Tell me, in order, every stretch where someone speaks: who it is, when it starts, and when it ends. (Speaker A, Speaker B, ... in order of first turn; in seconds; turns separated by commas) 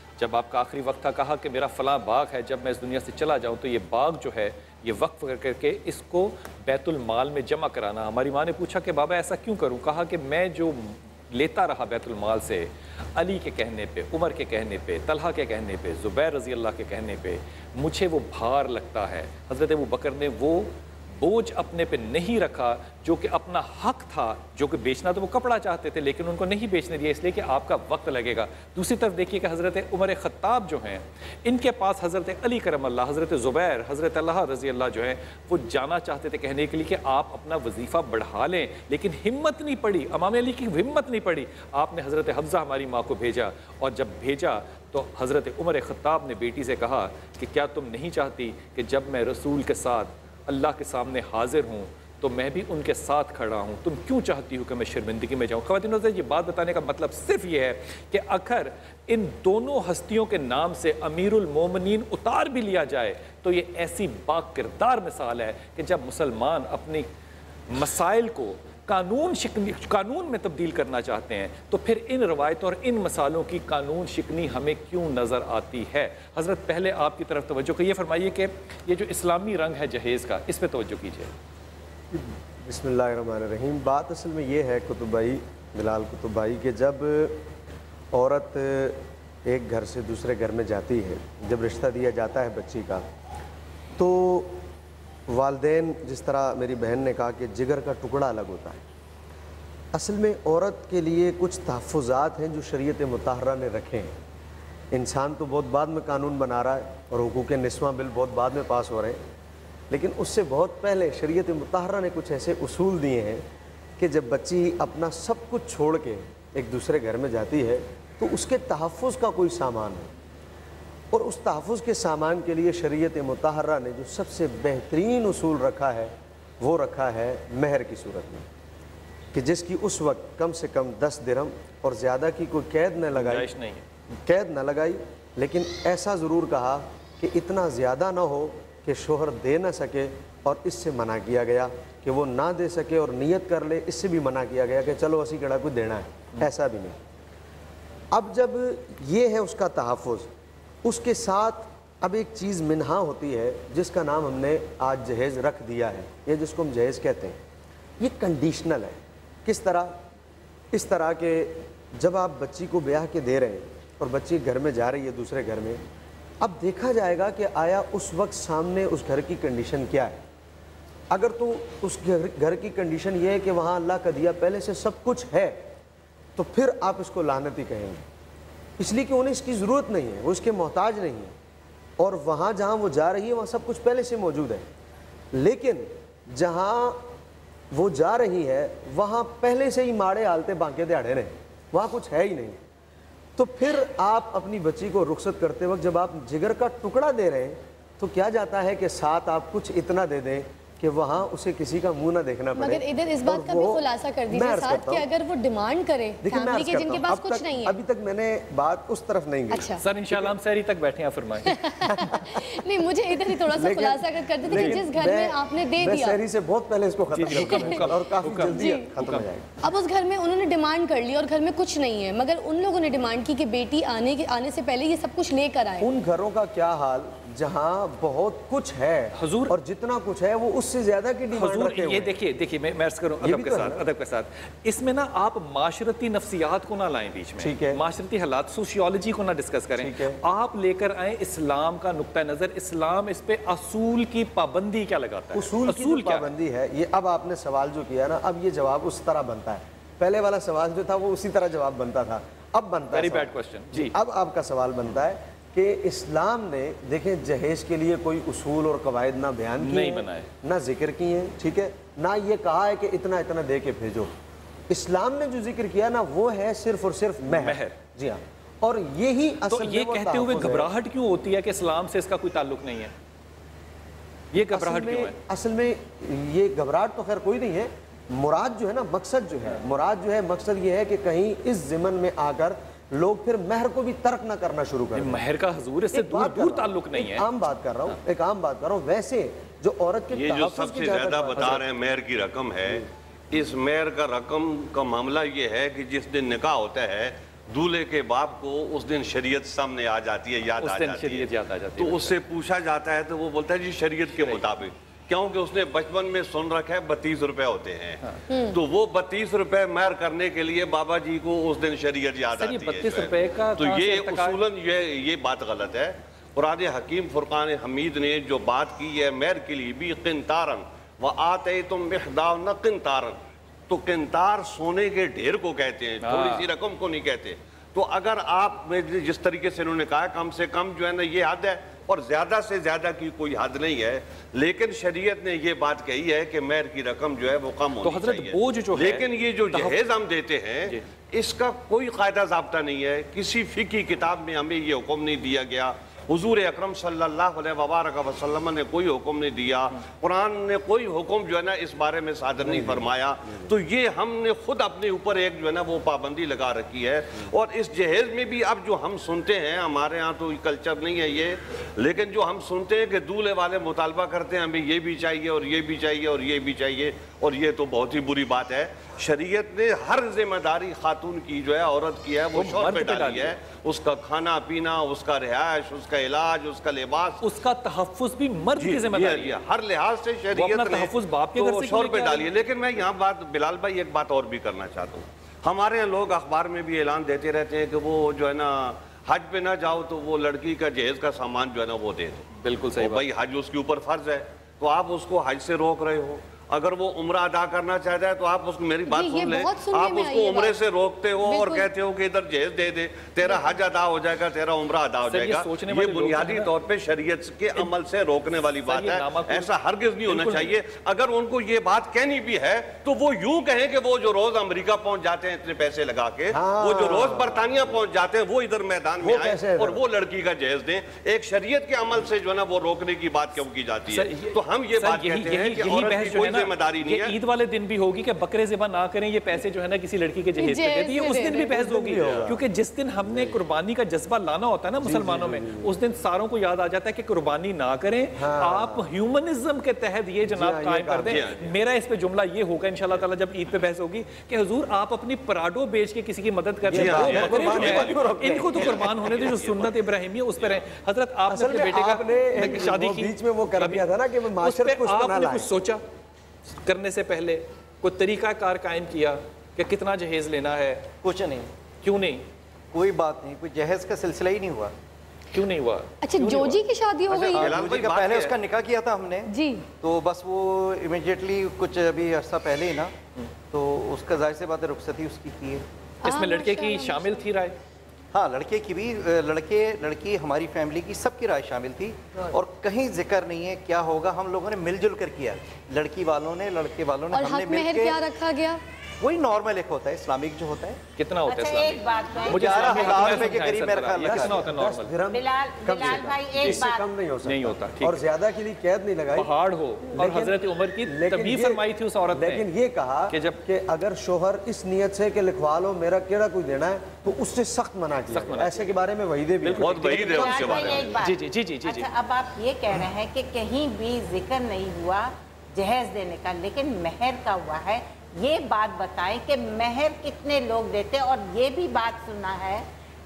Speaker A: 0.2-67.1, Speaker A: 67.7-81.3, Speaker B: 82.1-87.4, Speaker B: 88.1-93.0, Speaker B: 94.0-94.6, Speaker B: 95.3-98.8, Speaker B: 99.9-104.1, Speaker B: 104.9-109.2, Speaker B: 109.9-113.4, Speaker B: 114.0-120.1, Speaker B: 121.1-128.4, Speaker B: 129.3-133.5, Speaker A: 133.1-133.8, Speaker B: 134.2-147.0, Speaker B: 148.1-150.3, Speaker B: 150.8-157.4, Speaker B: 158.0-160.0, Speaker B: 160.7-165.8, Speaker B: 166.4-170.2, Speaker B: 171.1-175.7, Speaker B: 176.4-178.0, Speaker B: 178.8-181.3, Speaker B: 182.0-184.6, Speaker B: 185.3-187.0, Speaker B: 187.7-192.6, Speaker B: 193.4-205.1, Speaker C: 202.6-207.7, Speaker B: 206.2-210.3, Speaker C: 209.5-209.8, Speaker A: 209.8-211.6, Speaker C: 211.5-216.2, Speaker B: 211.8-212.5, Speaker B: 213.3-219.5, Speaker A: 214.5-214.8, Speaker A: 217.1-219.2, Speaker C: 217.4-217.7, Speaker C: 218.5-218.8, Speaker C: 219.6-225.9, Speaker B: 225.8-232.1, Speaker A: 229.2-229.5, Speaker A: 231.3-246.3, Speaker B: 233.2-233.8, Speaker B: 237.4-237.8, Speaker B: 239.8-240.2, Speaker B: 245.3-264.1, Speaker A: 252.9-253.9, Speaker A: 259.6-260.3, Speaker B: 264.7-270.7, Speaker A: 267.3-267.7, Speaker A: 269.5-272.9, Speaker A: 274.3-275.1, Speaker B: 274.5-285.2, Speaker A: 284.9-287.3, Speaker B: 285.9-291.6, Speaker D: 290.1-308.0, Speaker A: 290.3-291.6, Speaker A: 300.6-302.2, Speaker A: 304.1-304.5, Speaker C: 308.3-308.6, Speaker D: 308.5-323.2, Speaker A: 312.4-314.4, Speaker D: 323.7-377.2, Speaker A: 326.0-326.5, Speaker A: 337.8-339.8, Speaker B: 352.4-352.9, Speaker A: 372.3-373.3, Speaker A: 377.2-379.4, Speaker D: 378.6-427.1, Speaker A: 380.3-382.3, Speaker A: 392.4-393.0, Speaker C: 398.9-400.6, Speaker C: 401.2-401.7, Speaker A: 405.1-406.5, Speaker A: 408.6-409.5, Speaker A: 410.0-410.5, Speaker B: 416.3-417.5, Speaker B: 419.0-419.8, Speaker A: 423.9-453.8, Speaker C: 430.4-431.4, Speaker B: 431.1-432.4, Speaker B: 434.8-435.7, Speaker B: 438.2-438.9, Speaker B: 440.3-441.3, Speaker D: 441.0-441.5, Speaker B: 446.7-448.9, Speaker D: 446.7-449.8, Speaker B: 451.3-455.5, Speaker A: 454.4-455.8, Speaker A: 456.6-460.9, Speaker E: 461.0-461.5, Speaker A: 461.8-462.2, Speaker E: 462.7-464.7, Speaker A: 465.3-466.6, Speaker C: 466.0-467.5, Speaker E: 467.1-469.3, Speaker D: 467.4-468.4, Speaker C: 469.3-469.6, Speaker E: 469.8-472.9, Speaker E: 473.5-475.6, Speaker C: 476.0-477.2, Speaker A: 476.1-477.5, Speaker E: 478.1-488.0, Speaker C: 487.1-488.6, Speaker E: 489.0-490.8, Speaker A: 491.0-494.9, Speaker F: 491.2-493.3, Speaker E: 492.4-494.4, Speaker B: 494.0-499.3, Speaker F: 495.1-496.9, Speaker A: 495.7-496.6, Speaker A: 497.2-498.0, Speaker A: 499.1-502.4, Speaker B: 499.9-501.6, Speaker B: 502.1-510.7, Speaker A: 503.1-503.4, Speaker A: 508.1-508.7, Speaker A: 509.4-511.9, Speaker D: 509.6-510.9, Speaker F: 510.1-522.6